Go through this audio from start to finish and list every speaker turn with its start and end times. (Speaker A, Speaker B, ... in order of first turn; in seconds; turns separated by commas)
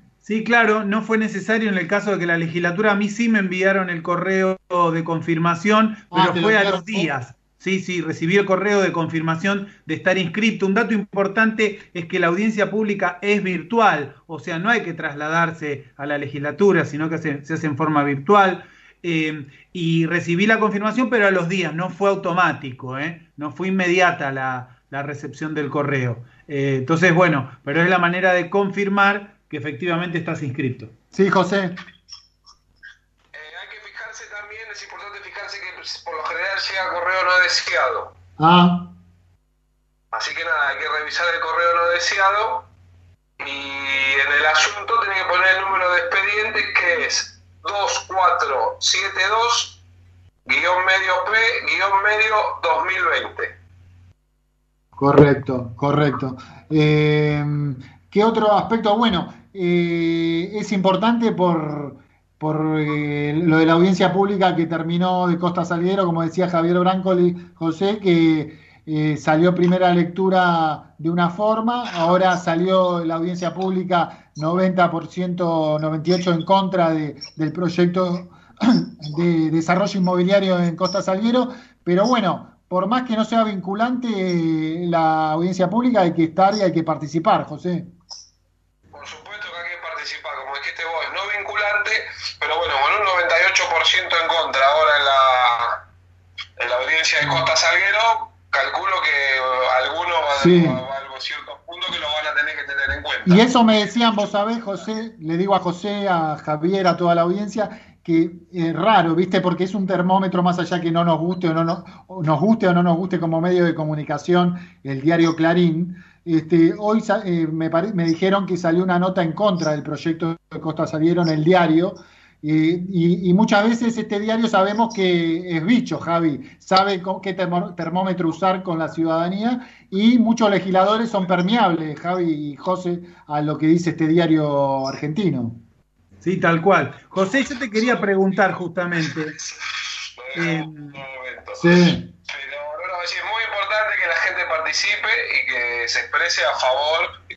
Speaker A: 0.2-30.9, Speaker B: 6.1-7.1, Speaker B: 31.1-31.8, Speaker C: 33.3-38.1, Speaker B: 38.4-38.9, Speaker C: 40.1-42.7, Speaker C: 43.4-49.8, Speaker C: 50.5-53.5, Speaker B: 55.0-87.9, Speaker C: 88.9-95.8, Speaker C: 96.6-103.5, Speaker B: 97.2-97.5, Speaker B: 100.3-100.8, Speaker B: 103.3-135.6, Speaker A: 136.2-139.3, Speaker C: 137.2-138.6, Speaker C: 140.2-147.1, Speaker A: 140.4-141.0, Speaker B: 141.6-142.1